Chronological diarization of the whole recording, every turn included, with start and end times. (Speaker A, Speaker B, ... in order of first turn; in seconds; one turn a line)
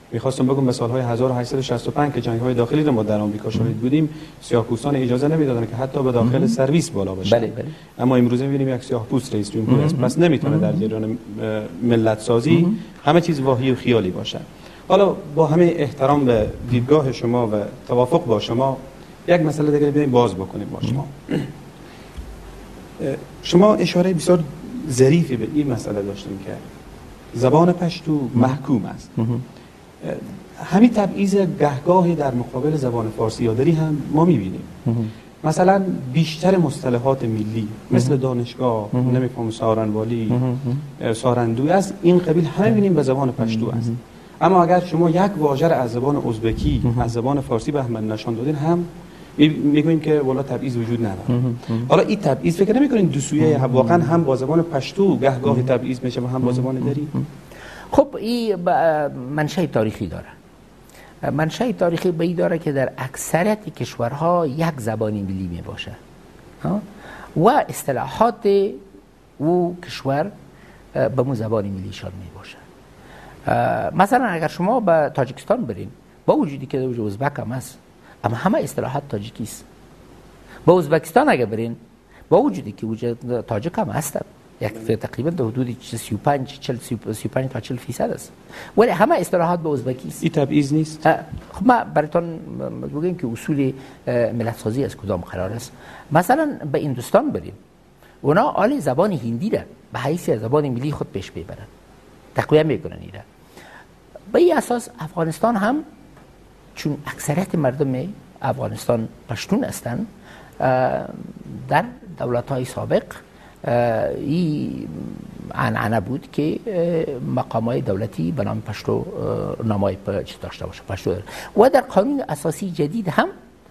Speaker A: 0.1-21.5
Speaker B: 6.2-6.5
Speaker B: 7.2-7.7
Speaker B: 9.7-10.8
Speaker A: 23.0-26.6
Speaker A: 27.3-29.2
Speaker A: 30.0-34.7
Speaker A: 35.4-40.4
Speaker B: 40.3-40.8
Speaker A: 41.0-57.1
Speaker B: 43.5-43.9
Speaker B: 51.5-51.9
Speaker B: 57.9-60.3
Speaker B: 61.3-66.0
Speaker B: 67.3-68.8
Speaker B: 69.4-70.3
Speaker B: 70.9-72.6
Speaker B: 73.5-79.6
Speaker B: 80.6-81.8
Speaker B: 82.3-90.2
Speaker A: 90.2-91.0
Speaker B: 91.0-97.6
Speaker B: 98.2-101.7
Speaker B: 102.3-103.2
Speaker B: 104.3-105.8
Speaker B: 106.7-110.0
Speaker B: 110.6-123.3